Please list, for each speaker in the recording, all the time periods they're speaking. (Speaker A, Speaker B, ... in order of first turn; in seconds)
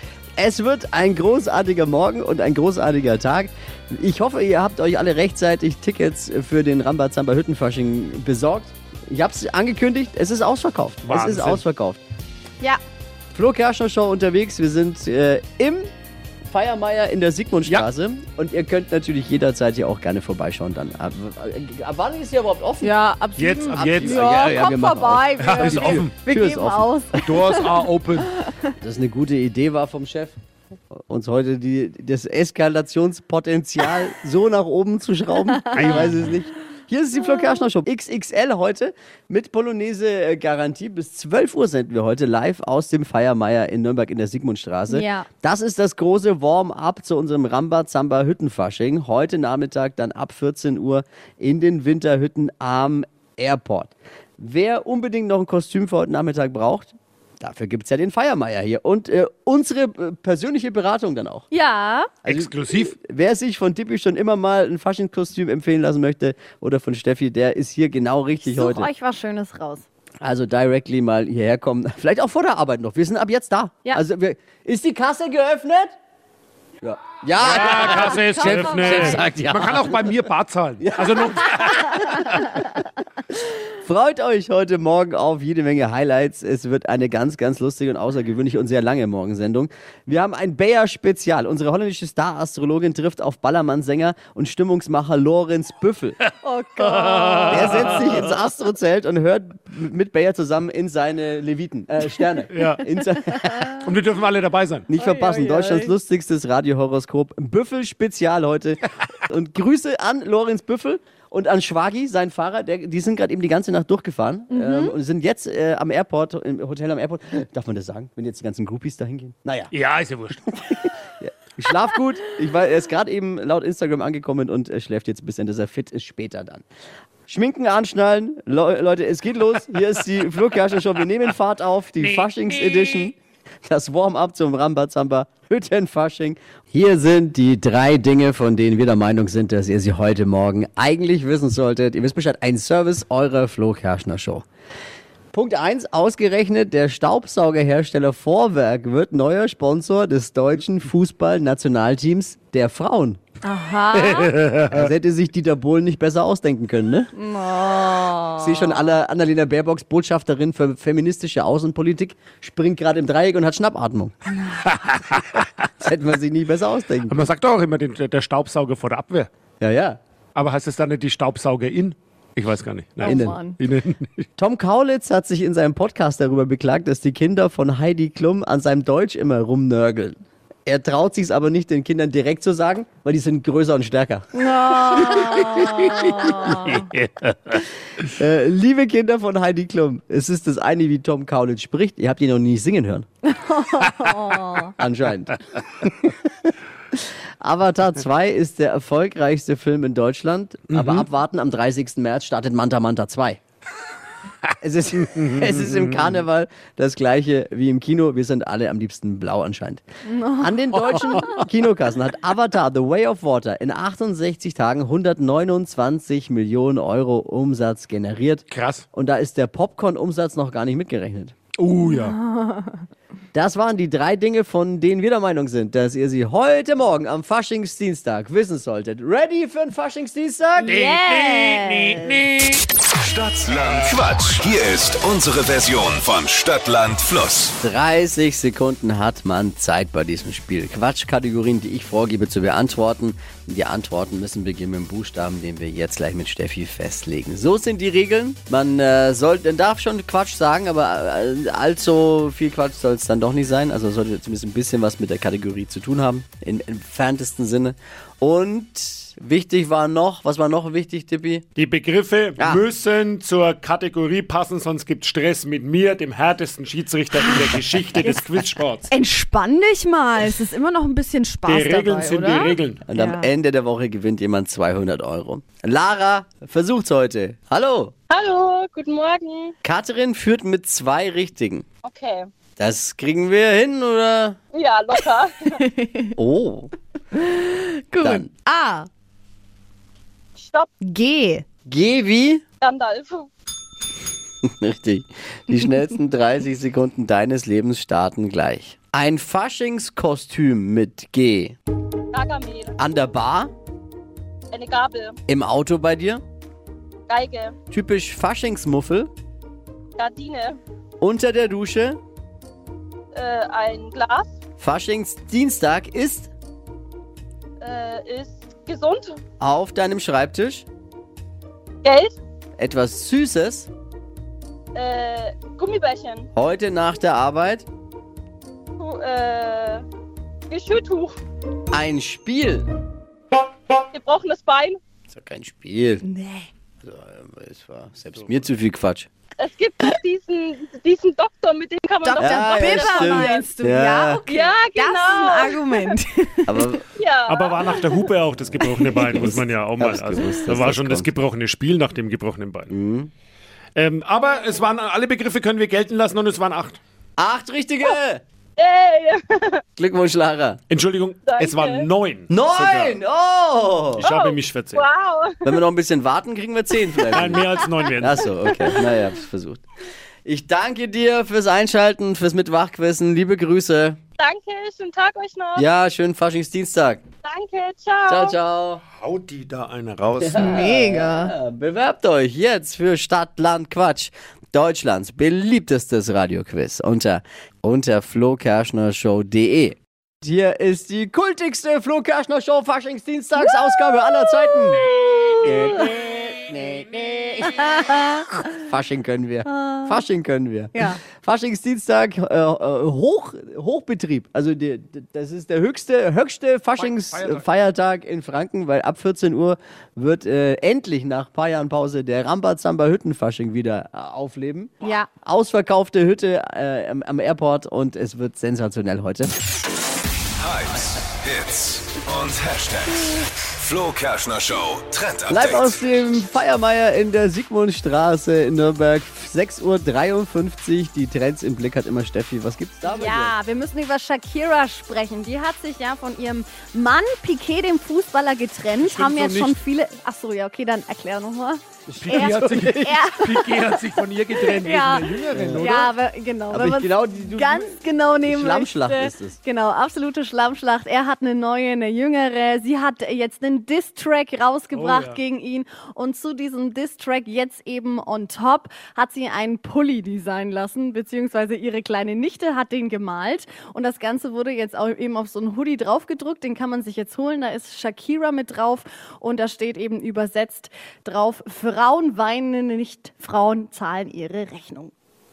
Speaker A: 0.4-12.0, 13.3-15.9, 16.5-23.0, 23.7-27.0, 28.8-30.4, 30.9-61.5, 62.3-68.9, 70.2-76.0, 76.8-80.1, 80.8-81.7, 83.8-96.2, 97.5-103.8, 104.9-119.7, 120.6-126.6, 127.3-144.4, 145.3-153.2, 154.7-157.1, 158.4-164.1, 165.8-167.2, 169.6-170.0, 173.1-173.4, 174.4-184.3, 184.8-185.4, 188.1-193.1, 194.8-195.4, 196.9-203.4, 204.6-209.8, 210.4-221.4, 223.3-230.8, 237.6-261.4, 262.4-262.6, 272.9-277.9, 279.6-281.6, 282.6-284.4, 286.2-286.7, 288.0-288.3, 291.7-292.4, 294.4-301.6, 302.8-303.5, 305.3-306.2, 307.7-309.1, 311.0-312.0, 314.6-316.3, 319.4-320.7, 322.6-323.7, 326.3-327.7, 331.7-332.7, 335.1-336.0, 336.8-339.1, 342.2-344.2, 346.5-346.8, 348.7-351.1, 352.7-353.1, 357.2-358.2, 359.8-360.6, 362.3-364.1, 365.4-369.6, 370.2-374.0, 375.6-377.0, 378.1-378.8, 380.2-397.9, 398.6-419.3, 425.3-433.4, 441.9-442.9, 445.3-445.8, 446.5-449.4
Speaker B: 11.1-11.6, 23.4-24.5, 25.4-26.1, 27.2-28.3, 35.7-36.3, 62.2-62.9, 77.4-82.4, 96.8-98.2, 102.5-102.8, 103.8-104.9, 119.7-120.4, 132.0-133.1, 153.9-154.8, 164.7-165.2, 167.1-169.3, 170.3-174.3, 186.1-187.7, 200.7-201.1, 205.1-206.1, 210.9-211.4, 218.5-218.9, 221.6-222.2, 230.6-232.6, 261.6-268.9, 271.5-272.8, 347.3-352.7, 353.8-356.8, 360.7-363.0, 364.0-364.9, 367.1-368.5, 378.9-380.6, 406.8-407.5, 438.8-439.6, 442.0-445.9, 454.7-455.2
Speaker C: 22.8-27.9, 35.6-36.0, 44.9-45.3, 61.5-62.1, 68.5-69.8, 77.8-79.2, 96.4-98.2, 103.3-103.8, 105.0-105.9, 114.5-115.0, 153.4-154.4, 157.2-158.8, 173.0-173.6, 184.3-186.9, 193.3-194.7, 210.1-211.4, 221.8-222.8, 230.6-232.2, 267.2-273.3, 285.4-286.1, 287.1-288.9, 290.8-291.4, 336.0-336.5, 342.0-346.8, 380.3-381.4, 397.7-398.2, 399.5-400.0, 400.8-401.0, 414.8-415.1, 432.9-443.5, 444.6-474.9
Speaker D: 233.0-237.6, 420.4-425.8
Speaker E: 278.1-279.5, 281.8-282.3, 284.5-285.6, 290.4-290.7, 292.6-293.3, 302.1-302.8, 304.5-305.2, 307.1-307.6, 310.0-310.6, 313.1-314.4, 317.6-319.2, 321.8-322.2, 324.8-326.3, 328.8-329.9, 330.5-331.1, 333.9-334.8, 339.4-343.5, 344.3-345.9, 347.0-347.8, 358.6-359.6, 361.2-361.9, 364.0-365.5, 374.2-375.7, 377.2-378.4